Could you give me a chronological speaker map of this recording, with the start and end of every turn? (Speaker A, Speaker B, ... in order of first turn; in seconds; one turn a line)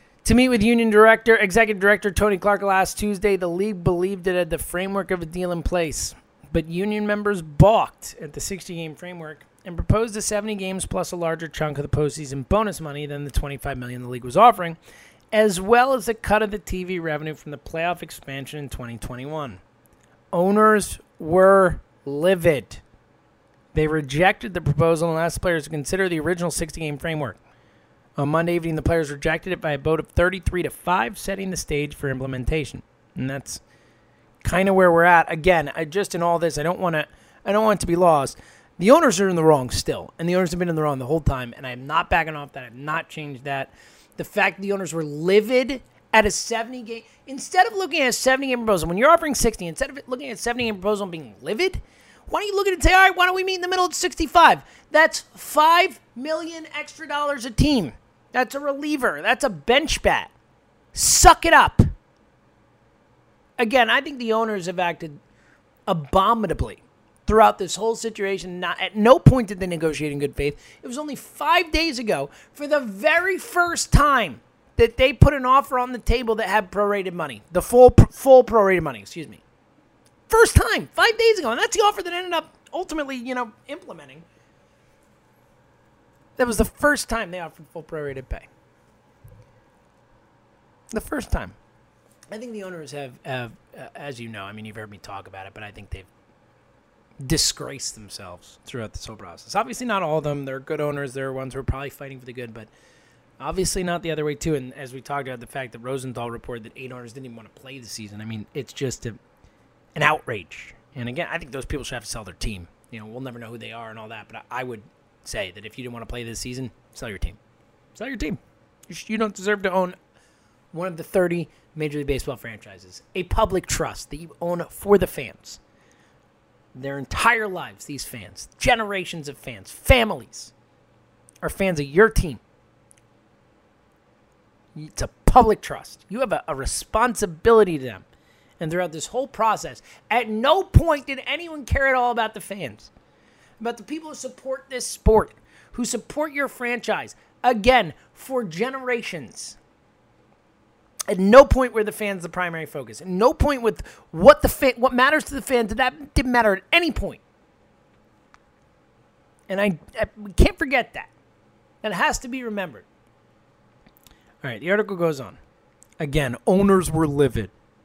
Speaker A: 0.2-14.8
Speaker A: 15.3-19.6
Speaker A: 20.3-22.8
Speaker A: 23.7-27.4
Speaker A: 28.2-33.6
Speaker A: 34.4-60.3
Speaker A: 60.9-61.9
Speaker A: 63.6-65.2
Speaker A: 65.9-79.4
Speaker A: 80.3-84.2
Speaker A: 86.4-88.5
Speaker A: 90.9-91.6
Speaker A: 92.3-96.1
Speaker A: 97.2-102.7
Speaker A: 103.4-109.2
Speaker A: 110.0-117.4
Speaker A: 118.0-120.0
Speaker A: 120.7-125.6
Speaker A: 126.7-130.5
Speaker A: 131.4-132.4
Speaker A: 134.8-138.1
Speaker A: 138.6-142.9
Speaker A: 143.6-149.6
Speaker A: 151.1-157.2
Speaker A: 159.5-161.1
Speaker A: 161.8-162.9
Speaker A: 164.4-165.4
Speaker A: 166.0-167.5